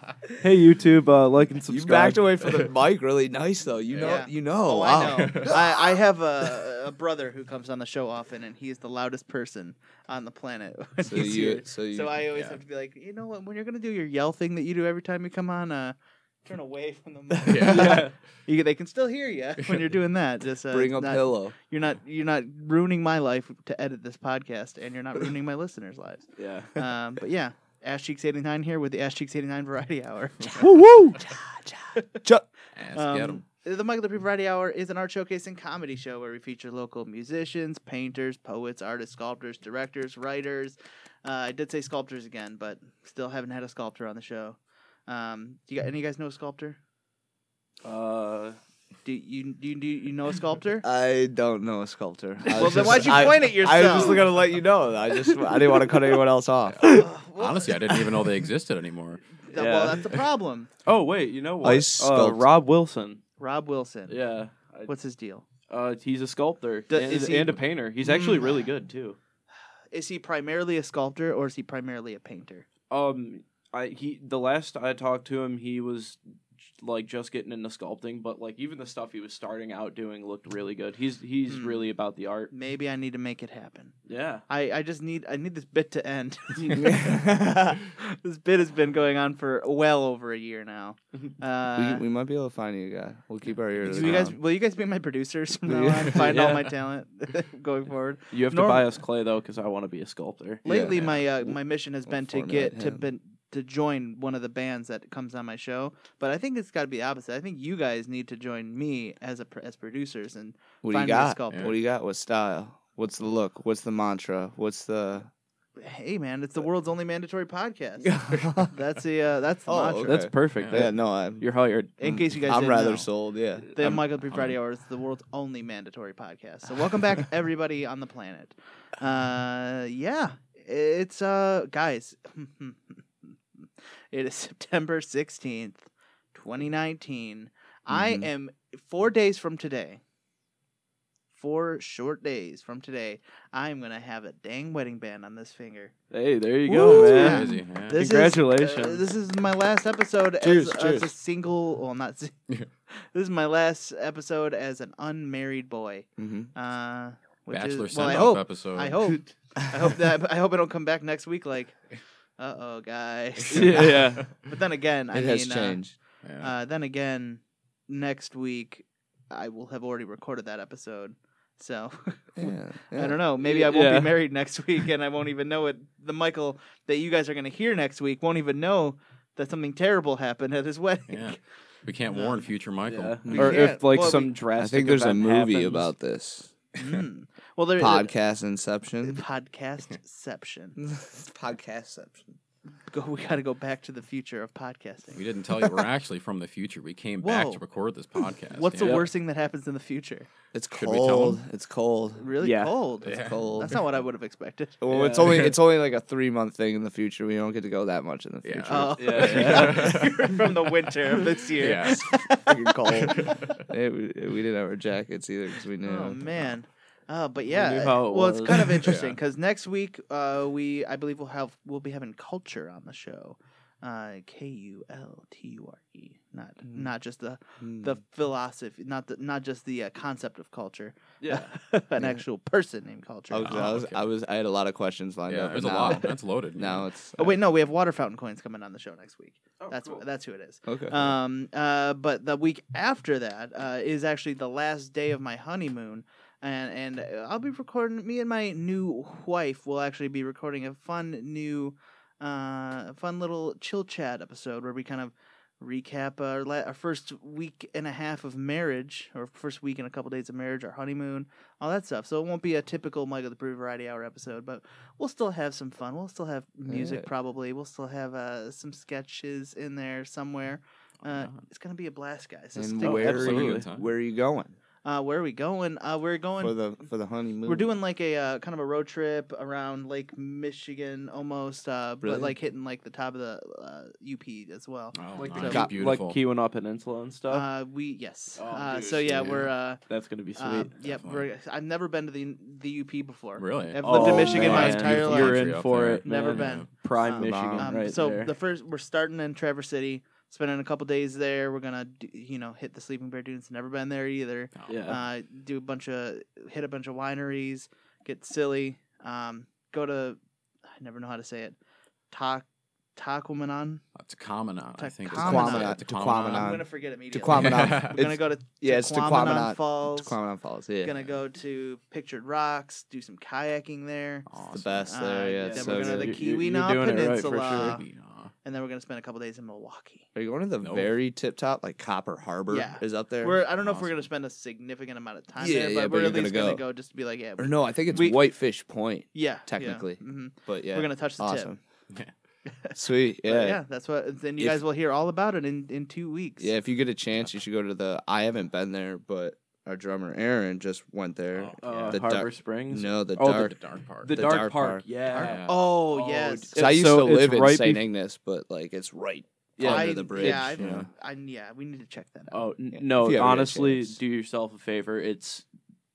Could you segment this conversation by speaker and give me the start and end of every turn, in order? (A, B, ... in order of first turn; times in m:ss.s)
0:00.4-0:02.3 A
0:01.7-0:05.6 B
0:04.0-0:31.4 C
0:05.2-0:05.6 D
0:11.0-0:12.3 B
0:12.3-0:12.6 D
0:17.4-0:18.0 D
0:17.6-0:18.1 A
0:20.7-0:21.6 B
0:26.4-0:26.7 A
0:30.6-0:31.2 B
0:32.8-0:33.4 D
0:32.9-0:46.8 C
0:47.8-0:48.6 A
0:49.0-0:50.8 C
0:50.8-0:57.1 B
0:52.5-0:54.3 C
0:56.7-0:59.3 D
0:56.8-0:57.8 C
0:59.5-1:00.7 C
0:59.5-1:00.0 A
1:00.9-1:03.2 A
1:01.6-1:02.5 B
1:03.4-1:04.2 C
1:04.1-1:04.9 A
1:04.9-1:05.4 C
1:05.7-1:09.2 A
1:06.9-1:08.7 C
1:09.9-1:12.7 C
1:12.9-1:16.2 A
1:16.8-1:22.5 A
1:21.5-1:21.9 C
1:22.5-1:24.0 C
1:24.1-1:24.4 A
1:24.5-1:32.0 C
1:26.7-1:27.7 B
1:31.7-1:34.4 B
1:33.8-1:38.9 C
1:35.7-1:36.3 B
1:36.2-1:36.8 A
1:38.3-1:40.6 A
1:40.6-1:51.7 C
1:40.6-1:43.0 B
1:50.8-1:55.3 B
1:51.5-1:51.8 D
1:55.8-2:00.2 C
1:58.0-1:58.7 B
1:59.7-2:01.5 B
2:00.0-2:01.9 A
2:00.6-2:00.9 D
2:02.0-2:03.1 C
2:02.0-2:04.0 B
2:03.7-2:20.0 C
2:04.3-2:04.6 D
2:17.9-2:18.3 B
2:21.3-2:25.9 C
2:26.1-2:29.0 A
2:26.7-2:32.4 C
2:26.7-2:27.1 B
2:27.1-2:28.0 D
2:30.4-2:31.1 B
2:32.9-2:41.8 C
2:36.2-2:36.5 B
2:37.5-2:39.1 D
2:42.4-2:45.8 C
2:43.5-2:44.3 A
2:45.1-2:46.0 B
2:46.2-2:46.5 D
2:46.4-3:01.4 C
2:52.4-2:53.2 B
2:53.4-2:54.2 A
3:01.1-3:03.4 D
3:02.1-3:02.5 C
3:02.9-3:05.9 A
3:03.2-3:06.6 B
3:03.3-3:04.3 C
3:06.8-3:08.1 C
3:07.8-3:09.2 B
3:09.0-3:10.8 C
3:10.8-3:12.4 B
3:12.9-3:15.2 C
3:15.1-3:19.1 D
3:17.2-3:17.6 C
3:18.5-3:20.3 C
3:18.8-3:19.1 A
3:20.5-3:22.4 B
3:20.7-3:21.4 D
3:22.2-3:24.8 C
3:22.4-3:22.7 A
3:23.0-3:23.9 B
3:23.0-3:23.6 D
3:24.8-3:29.9 B
3:24.9-3:25.5 A
3:28.4-3:30.4 D
3:28.7-3:33.4 C
3:29.0-3:30.1 A
3:31.5-3:32.1 D
3:31.9-3:36.5 B
3:33.2-3:33.6 D
3:35.8-3:53.7 C
3:37.5-3:38.9 A
3:38.7-3:39.1 B
3:46.6-3:46.9 B
3:47.6-3:48.0 B
3:51.2-3:51.5 A
3:53.3-3:57.4 B
3:53.4-3:54.1 D
3:55.3-3:56.9 D
3:57.2-4:33.4 C
3:59.6-4:00.0 A
4:00.7-4:01.2 B
4:26.7-4:27.1 B
4:31.0-4:31.4 D
4:32.6-4:34.6 B
4:32.8-4:33.7 A
4:33.1-4:33.9 D
4:34.8-4:36.6 C
4:36.4-4:37.7 B
4:37.5-4:45.0 C
4:42.0-4:42.4 B
4:44.9-4:46.2 D
4:45.2-4:47.5 A
4:45.4-4:45.8 B
4:47.3-4:49.8 C
4:48.4-4:50.7 A
4:50.4-4:55.5 C
4:50.8-4:51.3 D
4:53.4-4:56.7 D
4:53.8-4:58.3 A
4:53.9-4:54.6 B
4:56.0-5:10.2 C
4:57.0-4:57.9 B
5:04.6-5:04.8 D
5:04.7-5:05.0 A
5:10.8-5:11.6 C
5:12.1-5:13.8 C
5:14.0-5:16.6 D
5:14.8-5:20.2 C
5:15.1-5:21.0 B
5:17.3-5:18.0 D
5:20.8-5:24.3 C
5:24.3-5:24.8 D
5:24.5-5:26.2 B
5:24.9-5:27.8 C
5:25.4-5:27.8 A
5:27.5-5:28.3 D
5:28.4-5:30.1 C
5:30.2-5:33.6 B
5:30.6-5:31.0 D
5:32.5-5:38.2 C
5:33.6-5:33.9 D
5:35.4-5:36.6 B
5:37.4-5:41.6 B
5:39.1-5:41.5 C
5:42.5-5:46.5 C
5:42.8-5:43.6 B
5:46.4-5:54.9 B
5:51.4-5:52.0 D
5:51.6-5:57.8 A
5:53.3-5:54.2 D
5:55.1-5:56.6 C
5:55.2-5:55.6 D
5:56.5-6:00.9 B
5:59.6-6:00.6 A
5:59.7-6:02.5 C
6:00.6-6:00.9 D
6:02.3-6:05.5 A
6:02.7-6:04.0 B